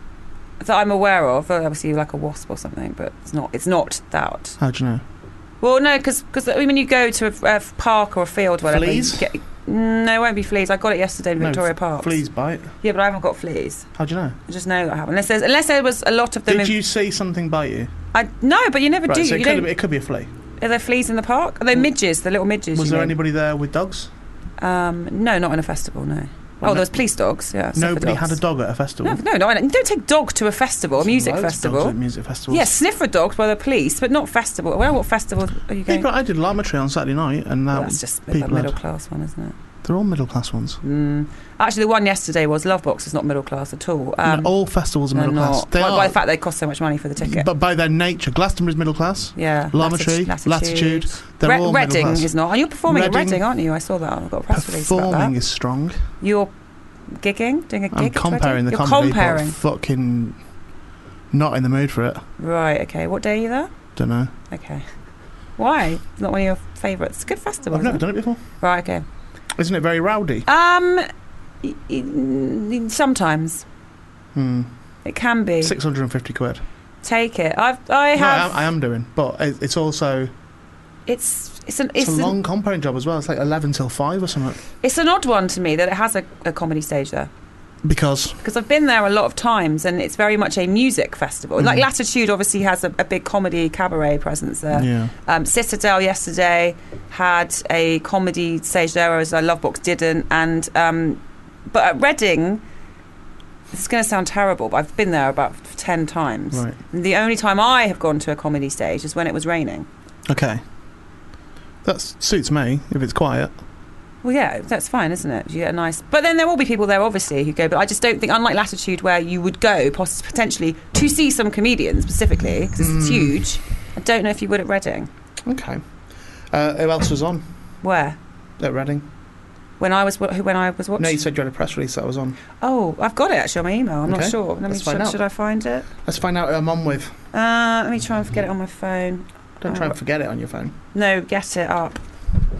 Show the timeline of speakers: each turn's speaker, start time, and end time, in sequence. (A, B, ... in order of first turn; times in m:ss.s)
0:00.6-0:04.6 A
0:04.6-0:05.0 B
0:05.6-0:12.2 A
0:08.6-0:09.3 B
0:11.4-0:12.7 B
0:12.8-0:13.9 A
0:14.0-0:14.4 B
0:14.5-0:16.8 A
0:16.5-0:17.9 B
0:18.1-0:19.7 A
0:19.1-0:20.3 B
0:20.6-0:23.2 A
0:22.7-0:24.1 B
0:24.6-0:28.4 A
0:26.6-0:27.0 B
0:27.7-0:29.2 B
0:29.0-0:31.9 A
0:31.0-0:32.7 B
0:32.5-0:36.1 A
0:35.9-0:38.7 B
0:37.7-0:39.5 A
0:39.8-0:40.8 B
0:40.8-0:44.5 A
0:44.2-0:46.2 B
0:45.1-0:47.4 A
0:47.2-0:53.4 B
0:49.4-0:55.3 A
0:54.5-0:56.0 B
0:56.2-0:56.5 A
0:57.1-0:59.6 A
0:57.9-1:00.4 B
1:01.3-1:02.2 B
1:02.4-1:03.7 A
1:04.0-1:04.3 B
1:04.5-1:04.8 A
1:05.6-1:09.0 A
1:07.7-1:08.4 B
1:09.5-1:10.4 B
1:10.4-1:11.1 A
1:11.6-1:13.6 A
1:14.3-1:14.7 B
1:15.0-1:15.7 A
1:15.6-1:16.6 B
1:17.0-1:18.7 A
1:18.1-1:20.3 B
1:21.1-1:22.3 A
1:22.0-1:24.6 B
1:24.8-1:27.3 A
1:27.8-1:28.4 B
1:28.4-1:42.6 A
1:31.6-1:31.8 B
1:34.7-1:35.1 B
1:43.7-1:49.9 A
1:46.5-1:46.8 B
1:50.3-1:50.6 B
1:51.8-1:53.5 B
1:54.2-2:05.1 A
2:02.8-2:03.4 B
2:05.4-2:05.8 B
2:06.5-2:07.4 B
2:07.8-2:08.2 A
2:08.6-2:09.0 B
2:09.8-2:11.2 A
2:11.0-2:12.4 B
2:12.6-2:15.9 A
2:14.0-2:15.2 B
2:16.0-2:17.1 B
2:17.3-2:19.9 A
2:19.6-2:20.7 B
2:20.9-2:22.0 A